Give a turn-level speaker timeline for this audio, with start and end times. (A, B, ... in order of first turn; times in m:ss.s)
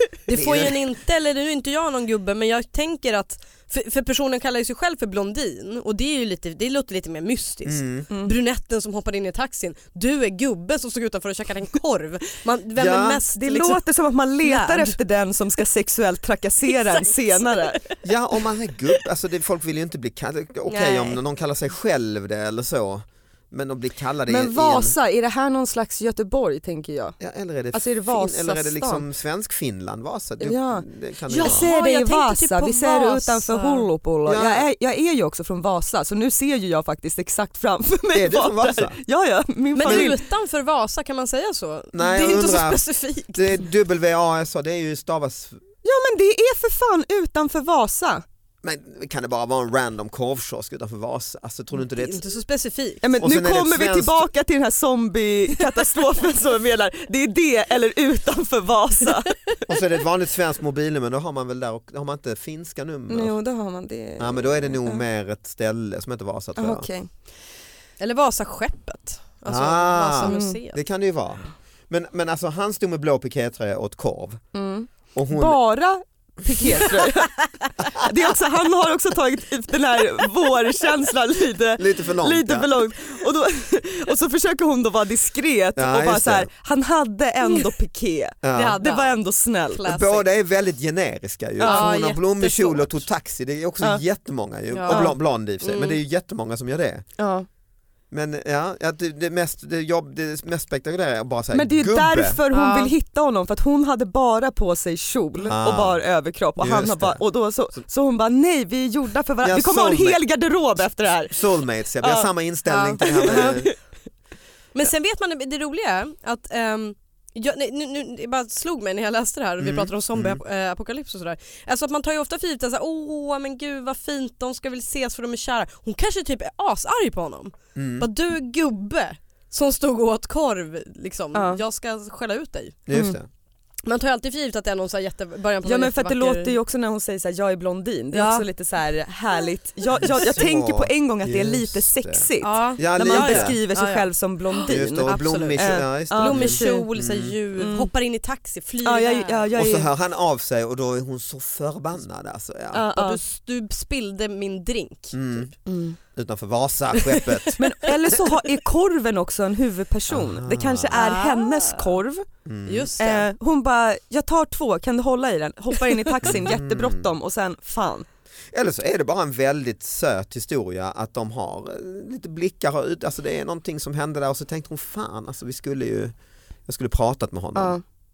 0:00.2-0:13.8 A
0:00.3-0:00.8 B
0:07.6-0:08.1 B
0:12.8-0:13.2 B
0:13.3-0:17.8 C
0:14.4-0:15.0 A
0:16.7-0:17.8 A
0:18.0-0:24.9 B
0:20.7-0:21.2 A
0:24.3-0:27.2 C
0:27.2-0:31.7 B
0:27.7-0:29.0 C
0:30.4-0:40.2 C
0:31.4-0:33.9 A
0:34.2-0:34.7 B
0:38.1-0:39.0 B
0:39.7-0:43.7 A
0:39.8-0:40.1 B
0:41.9-0:42.8 B
0:43.3-0:45.6 B
0:45.8-0:48.2 C
0:48.6-0:52.2 B
0:51.7-0:53.0 A
0:53.0-0:59.4 C
0:53.2-0:54.3 B
0:59.6-1:03.3 B
1:03.1-1:05.0 C
1:04.2-1:06.8 B
1:06.6-1:07.1 C
1:08.0-1:10.8 A
1:09.5-1:14.4 B
1:10.2-1:10.6 C
1:14.5-1:29.8 C
1:15.1-1:15.6 B
1:21.8-1:22.7 B
1:25.8-1:26.5 B
1:28.4-1:28.8 B
1:28.5-1:30.2 A
1:29.8-1:37.0 B
1:31.6-1:31.9 C
1:31.6-1:33.0 A
1:34.7-1:36.0 A
1:34.9-1:35.1 C
1:37.2-1:37.4 C
1:38.1-1:42.4 B
1:41.5-1:51.4 C
1:42.5-1:42.9 A
1:45.5-1:46.0 B
1:46.6-1:47.2 B
1:49.4-1:50.2 B
1:51.3-1:53.7 B
1:52.0-1:52.3 C
1:52.7-1:53.6 A
1:53.0-1:53.7 C
1:54.7-2:12.8 A
1:59.6-2:00.4 B
2:07.7-2:08.1 B
2:11.3-2:11.6 C
2:12.9-2:13.3 B
2:12.9-2:13.2 C
2:13.8-2:16.6 A
2:15.6-2:26.9 C
2:18.1-2:18.4 A
2:20.0-2:23.5 B
2:22.4-2:29.5 A
2:24.7-2:27.3 B
2:27.6-2:27.9 C
2:28.8-2:29.9 C
2:29.5-2:32.9 B
2:32.7-2:33.2 C
2:32.9-2:35.4 A
2:35.1-2:35.5 B
2:35.6-2:36.0 C
2:36.1-2:37.6 B
2:36.9-2:37.9 A
2:37.6-2:42.2 C
2:40.1-2:41.0 B
2:40.9-2:42.0 A
2:42.4-2:42.9 B
2:42.6-2:43.2 A
2:43.0-2:48.1 C
2:46.2-2:47.1 B
2:48.5-2:56.1 B
2:56.7-2:57.8 B
2:57.6-2:57.8 C